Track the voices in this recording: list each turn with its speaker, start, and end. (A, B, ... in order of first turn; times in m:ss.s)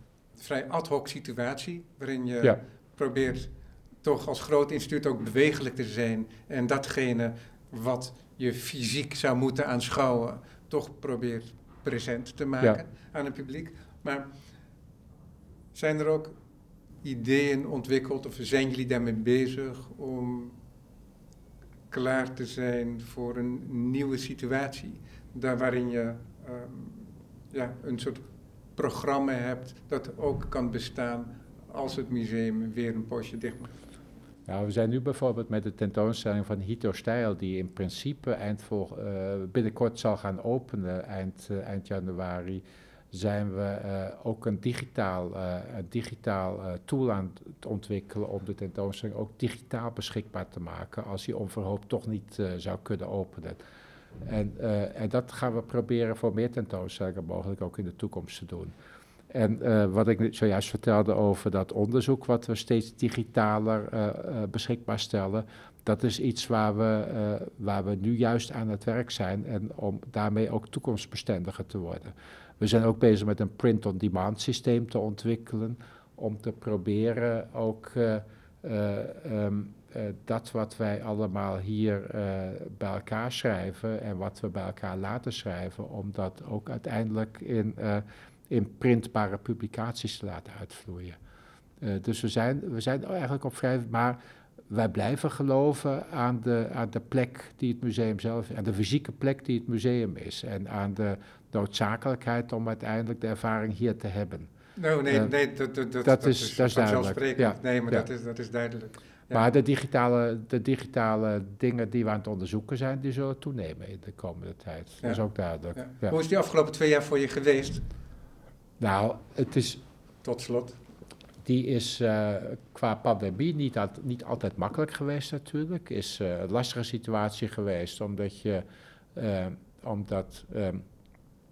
0:00.4-0:03.5 A
0:04.0-0:14.3 A
0:15.7-0:16.3 A
0:17.0-0:20.6 A
0:21.9-0:28.2 A
0:28.8-0:33.7 A
0:34.5-0:53.6 B
0:54.2-0:58.7 B
0:59.3-1:31.2 B
1:31.8-1:34.2 B
1:34.7-1:44.5 B
1:44.8-1:49.5 A
1:46.0-1:48.0 B
1:49.3-1:56.1 B
1:55.8-1:57.8 A
1:58.8-1:59.8 B
2:00.2-2:00.8 A
2:01.4-2:08.6 B
2:09.1-2:10.8 B